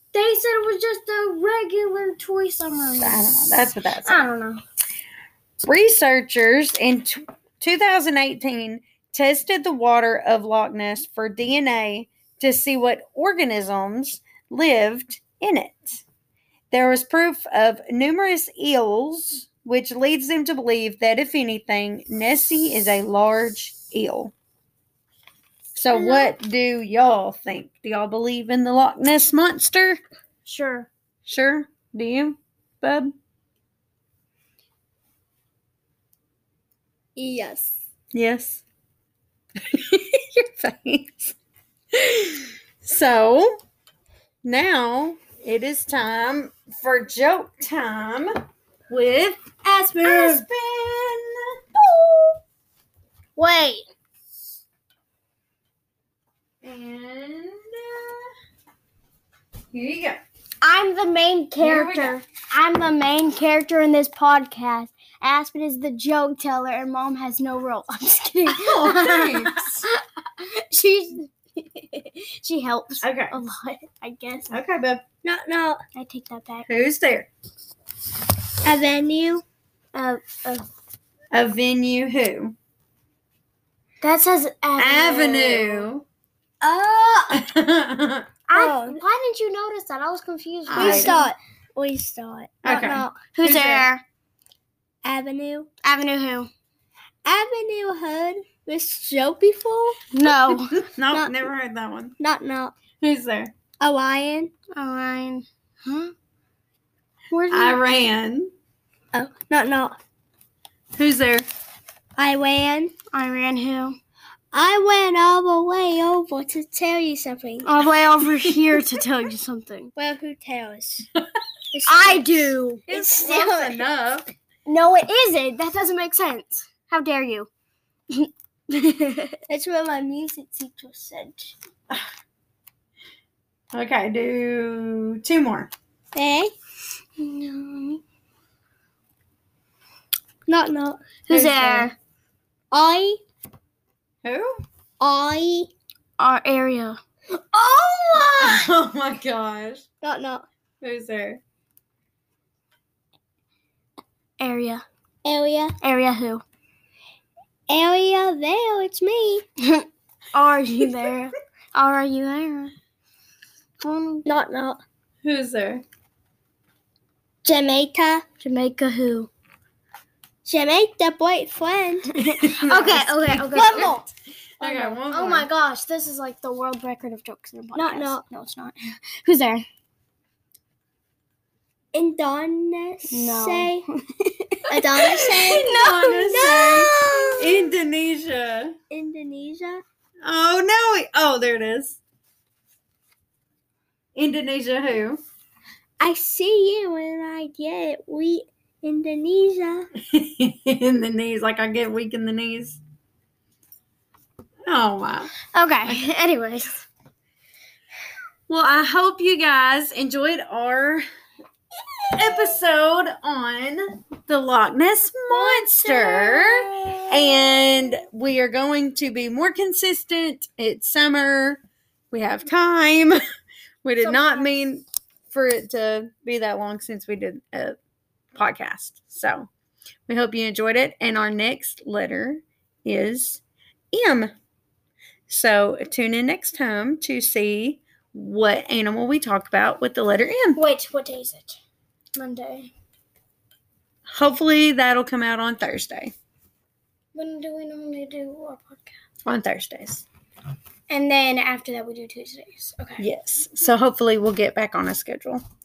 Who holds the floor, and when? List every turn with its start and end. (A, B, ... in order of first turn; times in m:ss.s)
0:00.1-0:03.2 A
0:03.0-0:04.2 B
0:04.0-0:04.6 A
0:05.6-0:16.0 B
0:16.7-0:24.3 B
0:25.8-0:30.0 B
0:25.9-0:26.3 A
0:30.4-0:30.9 A
0:31.2-0:33.1 B
0:37.2-0:37.8 C
0:38.1-0:38.6 B
0:39.7-0:41.3 B
0:41.9-0:43.5 B
0:44.4-0:48.3 B
0:48.9-0:49.4 B
0:49.6-0:50.4 A
0:50.0-0:51.4 B
0:52.0-0:52.3 B
0:53.4-0:53.8 A
0:56.6-0:58.3 B
0:59.7-1:00.2 B
1:00.6-1:14.5 A
1:01.6-1:02.2 B
1:08.5-1:09.8 B
1:13.0-1:13.4 B
1:14.5-1:15.0 B
1:15.2-1:15.8 C
1:15.9-1:16.7 A
1:16.7-1:17.3 B
1:18.6-1:19.4 C
1:19.9-1:20.7 A
1:21.3-1:22.6 B
1:24.0-1:25.9 A
1:24.8-1:26.0 B
1:26.6-1:27.4 C
1:27.3-1:28.3 B
1:28.5-1:31.3 A
1:28.5-1:29.0 C
1:30.7-1:31.2 B
1:30.7-1:33.2 C
1:32.6-1:33.9 B
1:33.2-1:34.0 A
1:35.0-1:35.7 C
1:35.8-1:36.5 A
1:37.2-1:40.0 C
1:40.1-1:40.8 A
1:40.2-1:42.2 B
1:41.1-1:41.4 C
1:42.2-1:42.8 C
1:43.0-1:43.5 B
1:43.8-1:44.5 C
1:44.7-1:46.1 A
1:47.3-1:47.9 A
1:47.5-1:48.5 B
1:49.1-1:49.9 C
1:51.0-1:51.4 B
1:52.2-1:52.9 C
1:53.1-1:54.0 A
1:54.5-1:57.7 C
1:57.6-1:59.9 A
2:00.0-2:01.1 C
2:01.7-2:03.2 C
2:01.8-2:03.8 A
2:02.9-2:04.3 B
2:04.7-2:07.5 A
2:08.1-2:09.3 A
2:09.5-2:11.6 C
2:13.7-2:15.7 B
2:16.2-2:16.5 C
2:17.2-2:18.0 A
2:20.5-2:21.9 C
2:21.3-2:21.9 A
2:22.7-2:23.2 C
2:24.2-2:24.6 B
2:25.0-2:25.7 C
2:26.2-2:27.0 A
2:27.3-2:28.7 C
2:28.4-2:29.8 B
2:30.0-2:30.4 C
2:30.8-2:31.4 B
2:34.4-2:34.8 A
2:35.2-2:35.8 C
2:35.8-2:36.4 A
2:37.7-2:39.4 C
2:39.6-2:42.7 A
2:43.8-2:44.3 A
2:44.3-2:44.8 C
2:45.2-2:45.8 B
2:47.4-2:48.2 C
2:48.4-2:49.3 A
2:50.4-2:52.1 C
2:52.1-2:54.0 A
2:52.4-2:53.9 B
2:53.5-2:54.1 C
2:54.6-2:55.5 B
2:54.6-2:59.6 A
2:57.8-2:58.2 C
3:01.9-3:03.8 C
3:03.1-3:07.4 A
3:04.7-3:07.7 C
3:05.3-3:08.8 B
3:08.9-3:09.8 C
3:10.2-3:12.0 B
3:14.2-3:15.2 B
3:16.0-3:19.9 C
3:20.1-3:22.8 B
3:24.7-3:25.3 B
3:25.5-3:26.8 A
3:28.5-3:31.0 B
3:32.2-3:41.6 B
3:35.3-3:37.1 A
3:42.1-3:43.2 B
3:43.8-3:47.8 B
3:44.0-3:44.5 A
3:48.3-3:49.5 B
3:50.1-3:54.3 B
3:55.3-4:00.6 B
4:00.6-4:01.6 A
4:02.2-4:02.7 A
4:04.1-4:06.1 B
4:07.1-4:08.9 A
4:09.3-4:10.0 B
4:10.9-4:13.1 A
4:13.0-4:15.4 B